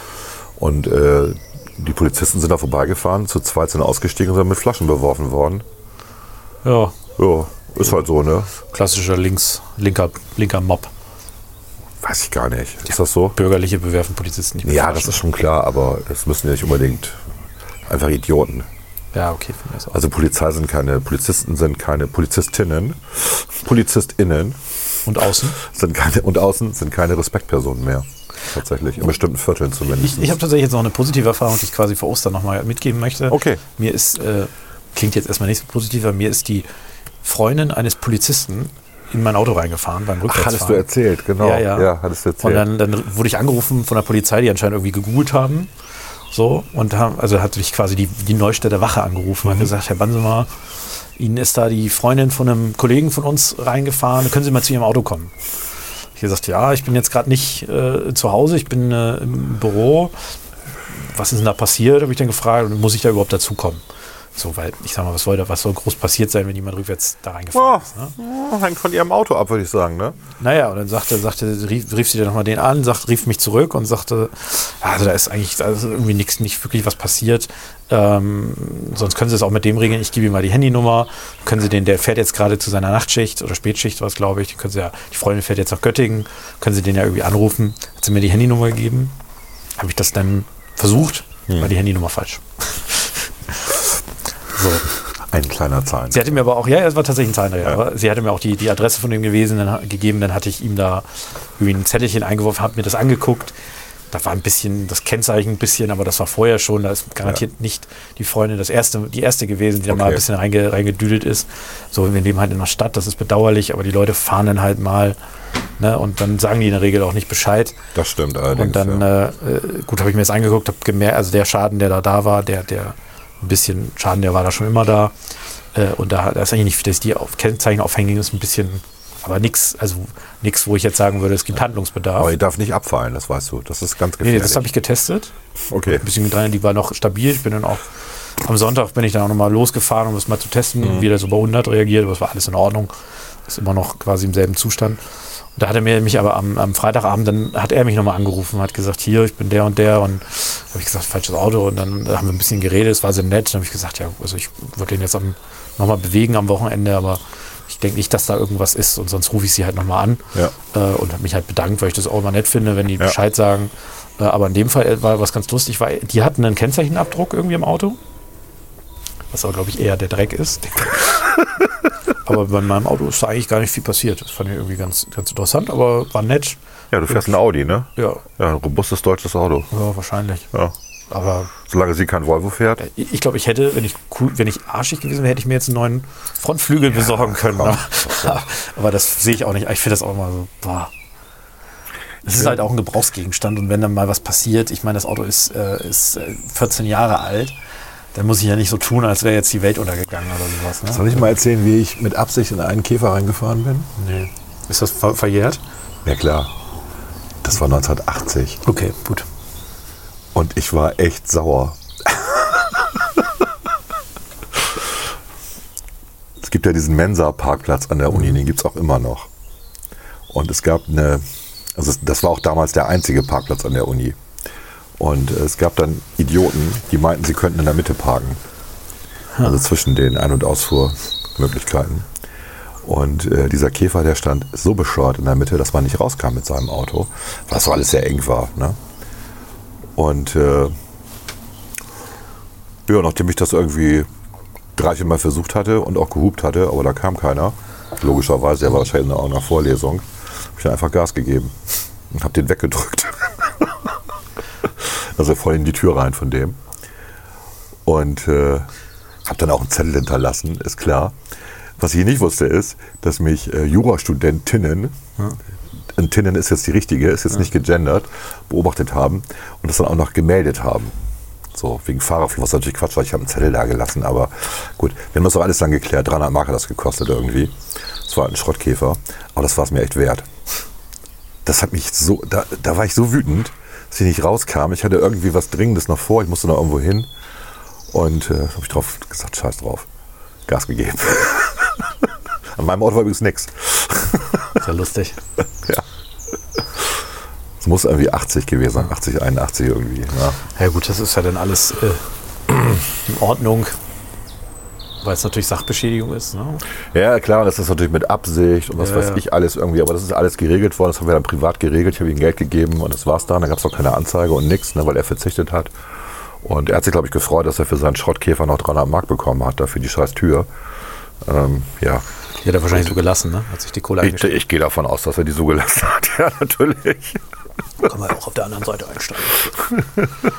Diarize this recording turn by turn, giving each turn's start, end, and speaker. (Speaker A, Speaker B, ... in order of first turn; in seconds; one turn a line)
Speaker A: 0.6-5.6
Speaker B: 6.6-6.9
Speaker A: 7.2-8.5
Speaker B: 8.6-10.9
Speaker A: 12.0-13.4
Speaker B: 13.3-15.2
Speaker A: 14.6-17.2
Speaker A: 17.9-18.7
Speaker B: 19.1-19.9
Speaker A: 19.9-24.8
Speaker B: 25.1-25.6
Speaker A: 25.6-30.4
Speaker B: 29.9-36.7
Speaker A: 33.3-33.6
Speaker B: 37.2-40.8
Speaker A: 40.3-42.6
Speaker B: 41.4-45.7
Speaker B: 46.3-55.3
Speaker B: 56.1-60.1
Speaker B: 60.9-63.8
Speaker B: 64.3-68.1
Speaker A: 67.5-70.2
Speaker B: 70.4-89.1
Speaker B: 89.8-93.7
Speaker B: 94.5-94.8
Speaker A: 95.1-96.4
Speaker B: 96.1-103.5
Speaker B: 104.1-115.2
Speaker A: 109.9-110.2
Speaker B: 115.8-117.8
Speaker A: 117.9-119.0
Speaker B: 118.5-125.1
Speaker B: 125.7-132.3
Speaker A: 132.2-134.7
Speaker B: 134.2-135.3
Speaker A: 135.7-136.0
Speaker B: 135.8-142.9
Speaker B: 143.5-145.0
Speaker B: 145.6-168.0
Speaker B: 169.3-171.3
Speaker B: 172.2-176.6
Speaker A: 176.9-179.7
Speaker B: 177.9-178.2
Speaker B: 179.7-180.5
Speaker B: 181.1-181.5
Speaker A: 181.5-182.8
Speaker B: 182.8-190.9
Speaker A: 187.2-188.4
Speaker B: 192.2-197.5
Speaker A: 192.3-192.6
Speaker B: 198.1-201.2
Speaker A: 200.9-203.9
Speaker B: 204.0-205.6
Speaker A: 206.0-206.5
Speaker A: 207.4-208.6
Speaker B: 208.6-209.3
Speaker A: 210.3-212.2
Speaker A: 216.4-219.3
Speaker A: 220.3-224.2
Speaker A: 225.0-228.4
Speaker A: 229.4-232.1
Speaker A: 232.8-238.8
Speaker A: 239.9-240.7
Speaker A: 242.9-244.1
Speaker A: 244.8-251.5
Speaker A: 252.1-253.8
Speaker A: 254.6-256.6
Speaker A: 257.8-258.7
Speaker A: 259.2-261.2
Speaker A: 261.8-264.9
Speaker A: 265.9-270.9
Speaker A: 271.5-280.3
Speaker A: 281.4-287.1
Speaker A: 287.9-289.9
Speaker A: 290.4-294.6
Speaker B: 294.6-295.2
Speaker A: 296.6-296.9
Speaker A: 297.6-300.4
Speaker B: 300.5-302.0
Speaker B: 302.9-303.8
Speaker B: 305.0-306.6
Speaker A: 306.9-315.7
Speaker B: 308.8-309.2
Speaker A: 316.4-320.5
Speaker A: 321.2-322.0
Speaker B: 322.4-324.4
Speaker A: 324.0-327.2
Speaker B: 327.8-329.5
Speaker A: 329.6-330.1